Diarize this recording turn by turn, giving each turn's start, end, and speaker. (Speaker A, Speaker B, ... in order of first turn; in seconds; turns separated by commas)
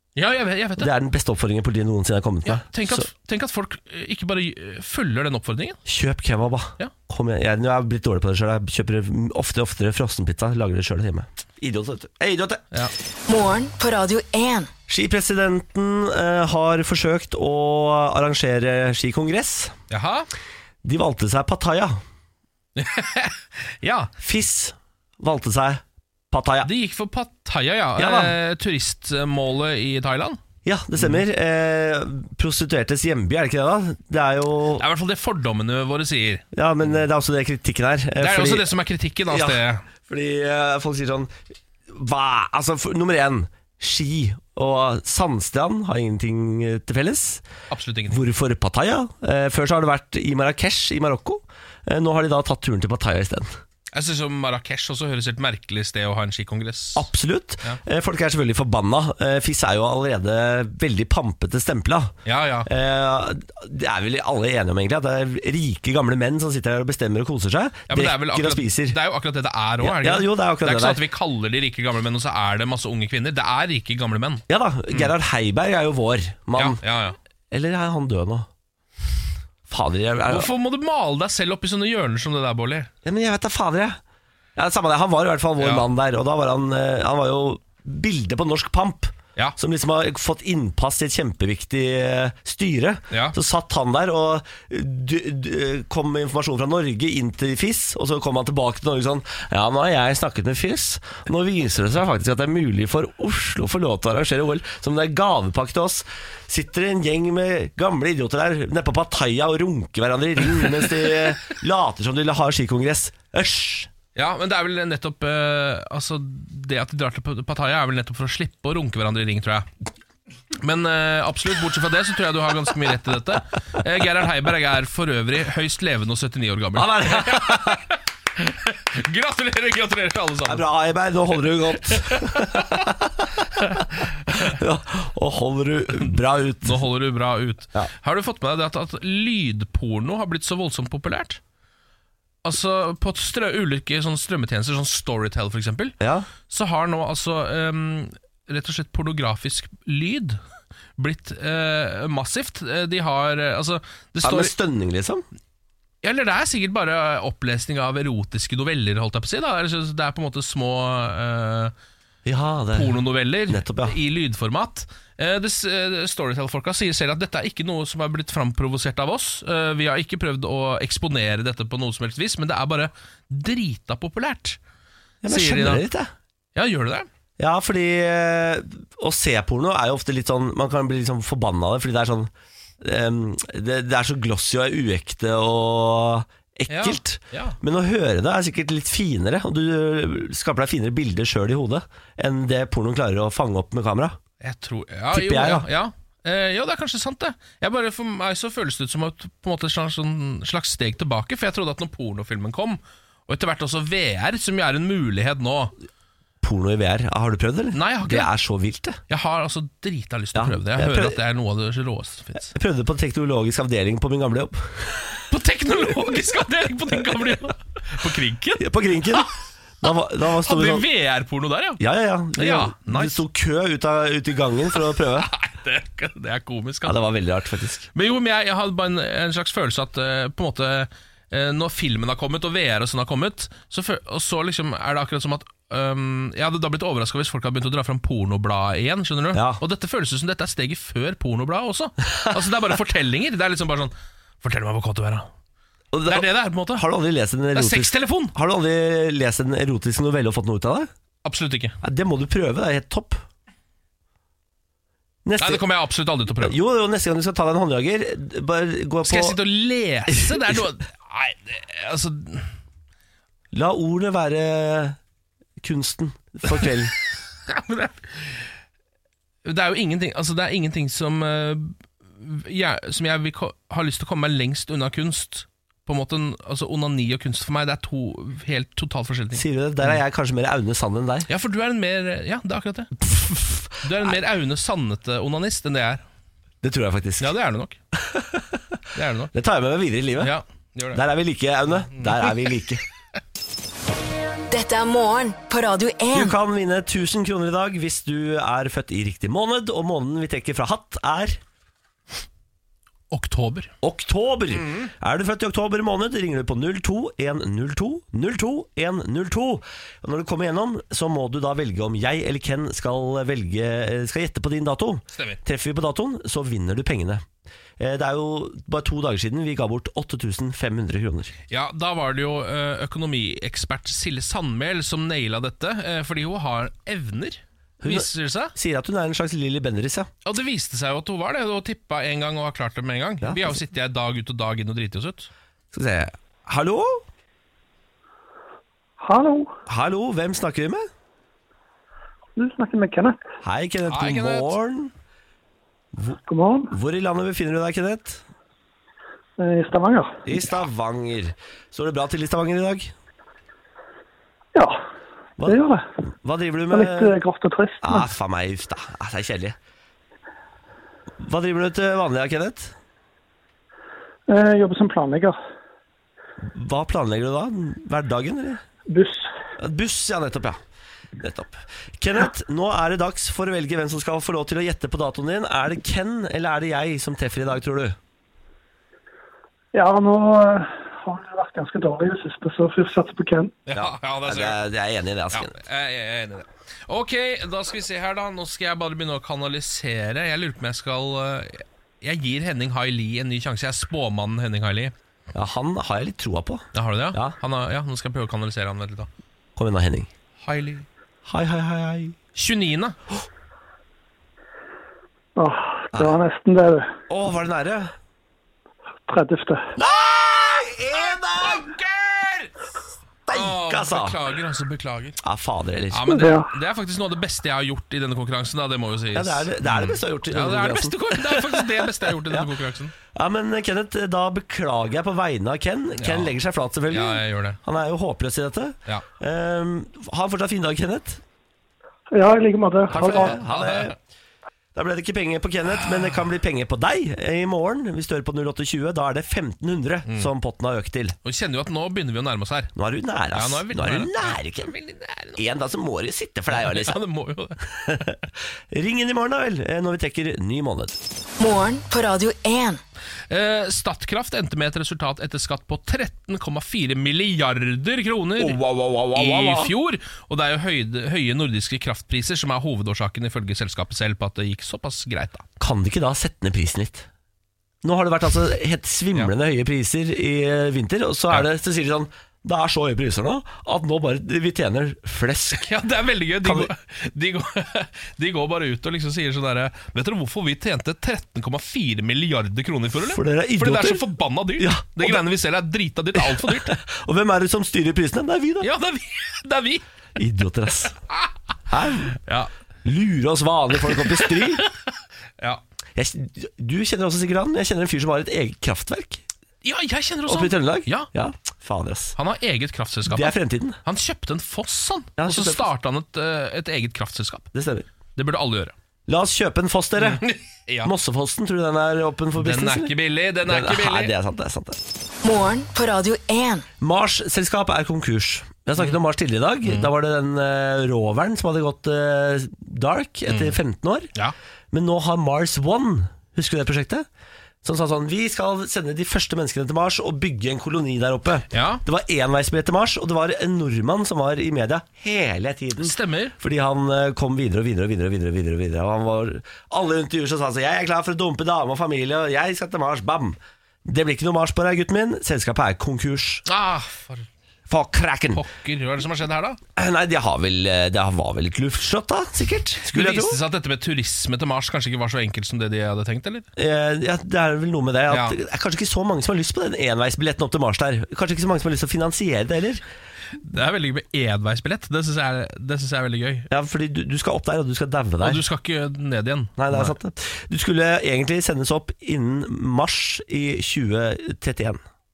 Speaker A: 0.1-0.9, Speaker B: 0.8-3.0, Speaker A: 2.4-5.8, Speaker B: 5.8-12.8, Speaker C: 13.3-14.7, Speaker B: 14.9-19.8, Speaker A: 19.9-20.3, Speaker B: 20.8-22.0, Speaker A: 22.8-24.1, Speaker B: 24.2-26.7, Speaker A: 26.6-30.4, Speaker B: 28.0-28.3, Speaker B: 30.6-34.8, Speaker A: 34.8-36.4, Speaker B: 36.5-38.7, Speaker A: 38.2-39.8, Speaker B: 39.3-41.3, Speaker B: 41.9-47.4, Speaker A: 47.7-48.2, Speaker B: 48.1-53.5, Speaker A: 53.9-57.1, Speaker B: 56.9-62.1, Speaker A: 62.2-62.7, Speaker B: 62.6-69.0, Speaker A: 67.9-75.1, Speaker B: 69.8-71.0, Speaker B: 74.5-76.8, Speaker A: 76.5-77.2, Speaker B: 77.5-78.5, Speaker B: 79.7-80.5, Speaker A: 80.3-82.9, Speaker B: 83.0-84.0, Speaker B: 84.5-113.9, Speaker A: 85.6-85.9, Speaker A: 114.1-119.7, Speaker A: 120.5-130.6, Speaker B: 126.7-127.8, Speaker B: 130.4-136.8, Speaker A: 132.0-132.9, Speaker A: 136.6-141.4, Speaker A: 142.4-145.9, Speaker B: 146.0-146.3, Speaker A: 146.5-150.4, Speaker A: 151.0-154.5, Speaker B: 154.2-155.2, Speaker A: 156.0-161.7, Speaker B: 162.2-164.0, Speaker A: 162.7-174.6, Speaker B: 175.2-176.1, Speaker A: 175.3-175.8, Speaker A: 176.5-177.1, Speaker B: 177.4-194.2, Speaker A: 186.7-187.6, Speaker A: 194.4-205.7, Speaker B: 195.1-195.7, Speaker B: 206.4-209.0, Speaker A: 207.7-208.3, Speaker A: 209.1-212.5, Speaker B: 210.3-211.2, Speaker B: 212.4-215.2, Speaker A: 215.3-219.3, Speaker B: 218.6-219.3, Speaker B: 219.8-220.8, Speaker A: 220.4-221.8, Speaker B: 221.8-225.3, Speaker A: 222.3-223.2, Speaker A: 225.2-226.9, Speaker B: 226.8-227.9, Speaker A: 227.9-245.2, Speaker B: 239.3-239.6, Speaker B: 245.9-250.9, Speaker A: 246.1-246.8, Speaker A: 247.5-248.3, Speaker A: 251.2-251.8, Speaker B: 251.8-253.2, Speaker B: 255.2-255.6, Speaker A: 255.4-256.6, Speaker B: 256.4-259.4, Speaker A: 259.0-262.5, Speaker B: 263.5-265.0, Speaker B: 265.6-266.9, Speaker A: 267.4-268.4, Speaker A: 269.4-280.0, Speaker B: 279.3-281.3, Speaker A: 281.3-286.0, Speaker B: 283.1-283.6, Speaker B: 286.6-287.3, Speaker A: 287.2-287.8, Speaker B: 287.9-288.8, Speaker A: 288.9-289.3, Speaker B: 289.3-290.3, Speaker A: 290.2-291.0, Speaker B: 290.9-292.8, Speaker A: 291.9-292.4, Speaker C: 294.5-296.4, Speaker B: 296.1-301.4, Speaker A: 303.1-303.7, Speaker B: 303.8-317.2, Speaker A: 304.6-304.9, Speaker B: 317.8-321.3, Speaker A: 321.5-328.5, Speaker B: 327.8-330.1, Speaker A: 330.2-335.3, Speaker B: 333.2-333.6, Speaker B: 335.7-337.0, Speaker D: 339.0-339.5, Speaker B: 339.7-340.9, Speaker D: 342.4-343.2, Speaker B: 343.4-344.9, Speaker A: 343.9-344.5, Speaker D: 346.3-346.7, Speaker B: 346.7-348.2, Speaker D: 349.4-350.2, Speaker B: 350.2-352.9, Speaker D: 355.4-355.8, Speaker B: 356.2-357.2, Speaker D: 356.7-358.1, Speaker B: 357.8-359.6, Speaker B: 361.2-362.7, Speaker D: 364.3-365.4, Speaker B: 366.4-368.6, Speaker D: 368.9-369.2, Speaker B: 369.6-370.6, Speaker B: 371.2-378.0, Speaker D: 379.7-383.5, Speaker A: 383.7-384.6, Speaker B: 383.7-385.6, Speaker A: 385.3-394.9, Speaker B: 395.3-397.4, Speaker A: 396.7-399.1, Speaker B: 399.6-400.1, Speaker A: 400.4-400.9, Speaker B: 401.2-402.1, Speaker A: 402.4-403.0, Speaker D: 405.4-406.9, Speaker B: 407.1-407.9, Speaker D: 409.1-409.7, Speaker B: 409.8-411.7, Speaker A: 411.3-412.5, Speaker B: 413.3-414.2, Speaker A: 413.3-415.2, Speaker B: 415.2-416.1, Speaker A: 415.9-422.9, Speaker D: 416.1-416.5, Speaker B: 419.1-422.5, Speaker B: 423.1-431.2, Speaker A: 426.0-426.3, Speaker A: 426.9-427.6, Speaker D: 432.1-433.4, Speaker B: 432.9-433.9, Speaker A: 432.9-433.9, Speaker B: 434.7-441.1, Speaker A: 441.2-442.7, Speaker B: 442.8-444.7, Speaker A: 443.3-445.4, Speaker B: 445.4-447.0, Speaker A: 446.5-448.0, Speaker B: 447.7-448.2, Speaker B: 448.7-451.0, Speaker C: 451.4-452.8, Speaker A: 453.3-458.6, Speaker B: 458.4-459.7, Speaker A: 459.1-465.4, Speaker B: 465.6-467.1, Speaker B: 467.8-475.7, Speaker A: 475.6-486.8, Speaker B: 476.4-476.7, Speaker B: 483.0-484.0, Speaker B: 484.6-485.2, Speaker B: 486.1-488.7, Speaker A: 488.6-489.8, Speaker B: 490.1-490.9, Speaker B: 491.7-492.2, Speaker A: 492.2-492.5, Speaker B: 492.8-494.7, Speaker B: 495.9-499.2, Speaker A: 499.6-501.1, Speaker B: 500.3-502.1, Speaker A: 502.1-507.5, Speaker B: 503.1-503.8, Speaker B: 505.2-505.7, Speaker B: 507.5-507.9, Speaker A: 508.1-508.7, Speaker B: 509.1-510.2, Speaker A: 510.0-510.9, Speaker B: 510.8-512.9, Speaker A: 512.4-514.1, Speaker B: 513.5-514.8, Speaker C: 515.2-516.6, Speaker B: 516.8-524.1, Speaker A: 519.6-519.9, Speaker A: 523.3-523.6, Speaker B: 524.7-527.0, Speaker B: 527.6-546.4, Speaker A: 531.5-531.8, Speaker A: 535.8-536.3, Speaker A: 546.5-547.3, Speaker B: 547.7-548.4, Speaker A: 548.3-549.6, Speaker B: 549.8-553.4, Speaker A: 552.9-556.5, Speaker B: 556.5-562.8, Speaker A: 558.1-558.4, Speaker A: 563.4-566.5, Speaker B: 566.5-568.4, Speaker A: 568.2-569.9, Speaker B: 569.6-574.8